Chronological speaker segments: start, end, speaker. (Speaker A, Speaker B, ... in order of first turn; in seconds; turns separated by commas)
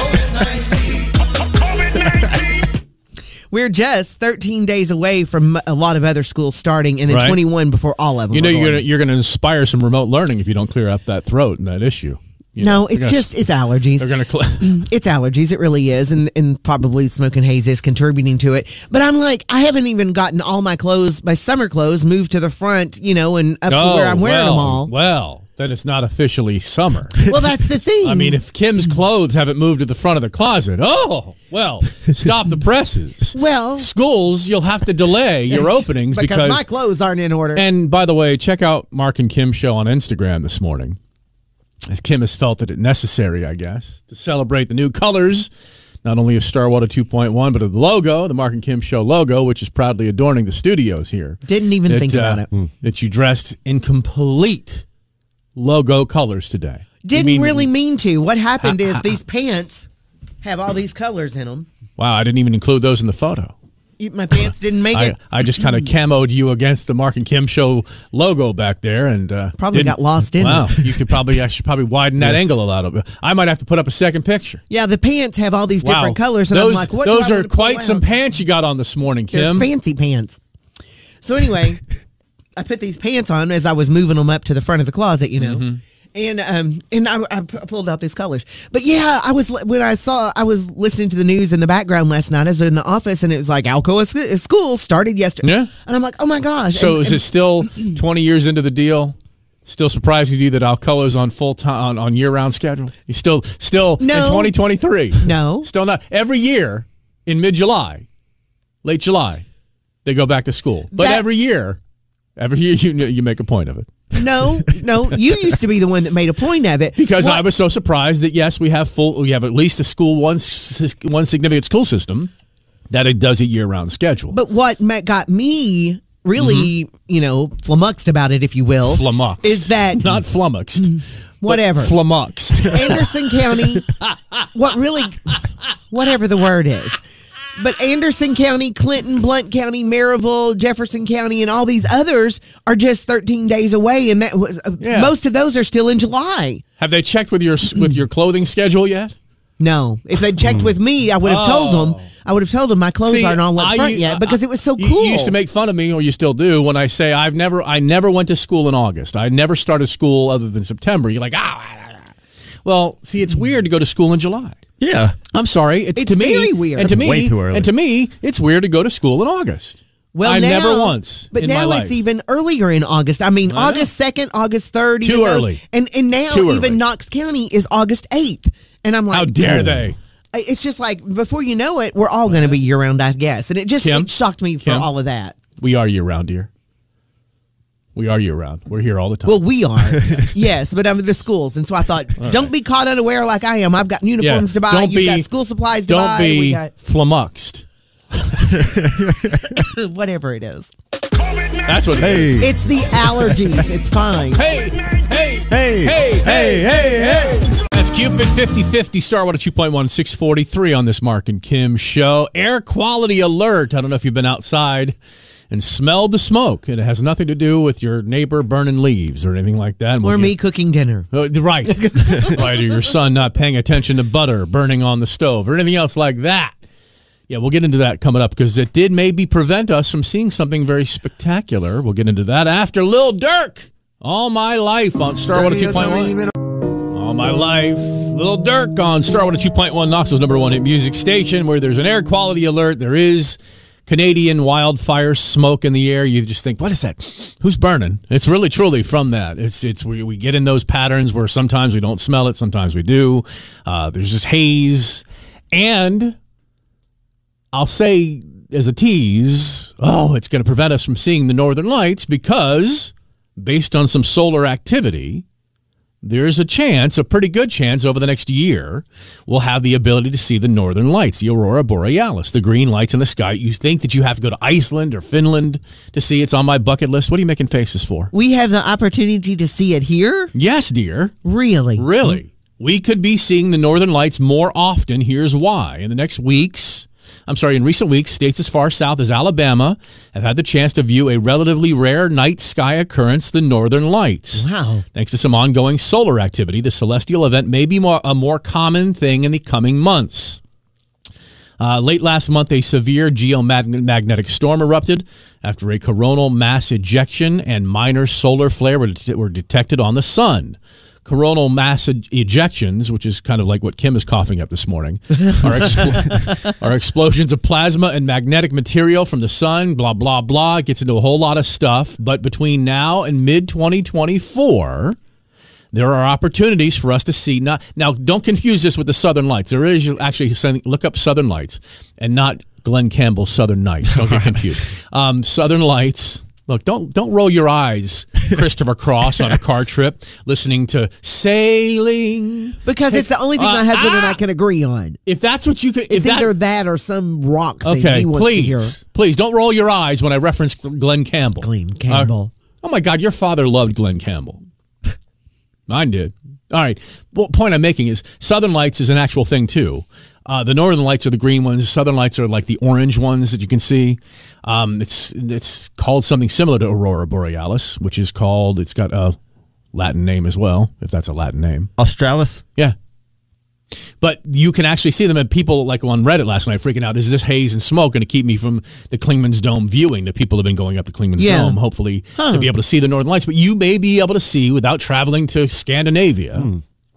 Speaker A: 3.5-8.8, Speaker B: 7.1-7.4, Speaker B: 8.3-13.3, Speaker A: 12.6-24.9, Speaker B: 14.0-14.8, Speaker B: 23.7-27.3, Speaker A: 27.2-28.4, Speaker B: 28.0-36.6, Speaker A: 33.3-33.9, Speaker A: 35.5-37.7, Speaker B: 37.5-41.0, Speaker B: 41.9-45.5, Speaker B: 46.0-54.9, Speaker A: 51.4-52.5, Speaker B: 55.6-57.7, Speaker A: 57.0-59.9, Speaker B: 58.6-59.1, Speaker A: 60.4-61.7, Speaker B: 62.0-63.5, Speaker A: 64.0-65.9, Speaker B: 64.9-74.6, Speaker A: 69.6-70.8, Speaker A: 74.7-78.0, Speaker B: 75.8-79.7, Speaker A: 79.3-80.4, Speaker A: 81.2-81.8, Speaker A: 82.6-98.0, Speaker B: 85.4-85.8, Speaker B: 95.4-95.7, Speaker B: 96.7-99.2, Speaker B: 99.7-108.1, Speaker A: 104.0-104.6, Speaker A: 105.2-105.7, Speaker B: 108.8-109.5, Speaker B: 110.0-111.8, Speaker A: 110.9-111.3, Speaker B: 112.4-113.9, Speaker A: 114.1-117.5, Speaker B: 117.0-122.3, Speaker B: 122.9-124.4, Speaker A: 124.3-130.2, Speaker B: 126.4-126.7, Speaker B: 128.9-133.1, Speaker A: 130.8-132.0, Speaker A: 132.6-133.9, Speaker B: 134.0-134.5, Speaker A: 134.5-135.4, Speaker A: 135.9-137.0, Speaker A: 137.6-146.6, Speaker B: 144.8-145.1, Speaker B: 146.8-149.2, Speaker A: 147.7-148.0, Speaker A: 149.6-155.4, Speaker C: 150.4-150.7, Speaker B: 151.2-152.1, Speaker B: 153.0-162.1, Speaker B: 162.7-164.6, Speaker C: 164.8-165.2, Speaker B: 165.3-172.0, Speaker A: 166.0-167.1, Speaker C: 166.8-167.7, Speaker A: 170.1-185.4, Speaker B: 173.5-173.9, Speaker B: 175.0-175.6, Speaker B: 176.3-176.8, Speaker B: 179.1-180.0, Speaker B: 182.3-182.6, Speaker B: 183.8-184.1, Speaker B: 184.6-184.9, Speaker B: 185.6-186.5, Speaker B: 187.9-189.4, Speaker A: 189.3-196.7, Speaker B: 194.2-195.3, Speaker B: 195.9-197.7, Speaker C: 198.8-199.4, Speaker A: 199.5-200.7, Speaker B: 201.6-202.5, Speaker C: 202.0-202.5, Speaker A: 202.4-204.4, Speaker B: 204.3-215.0, Speaker C: 205.5-207.4, Speaker B: 215.5-220.4, Speaker A: 220.0-221.1, Speaker B: 221.1-226.6, Speaker A: 221.7-222.5, Speaker B: 227.3-236.2, Speaker A: 235.3-236.3, Speaker B: 236.9-256.2, Speaker B: 257.5-265.2, Speaker B: 266.0-278.1, Speaker A: 278.1-280.3, Speaker B: 280.3-281.1, Speaker A: 281.2-282.1, Speaker B: 281.8-300.4, Speaker A: 294.4-294.9, Speaker B: 301.6-325.0, Speaker B: 325.7-344.2, Speaker A: 342.6-345.0, Speaker B: 345.1-346.3, Speaker A: 345.9-348.8, Speaker B: 347.6-354.4, Speaker A: 351.4-352.3, Speaker B: 355.7-369.2, Speaker B: 369.7-371.7, Speaker C: 371.8-372.4, Speaker B: 374.0-386.5, Speaker A: 381.2-381.6, Speaker A: 382.2-382.5, Speaker C: 386.4-386.6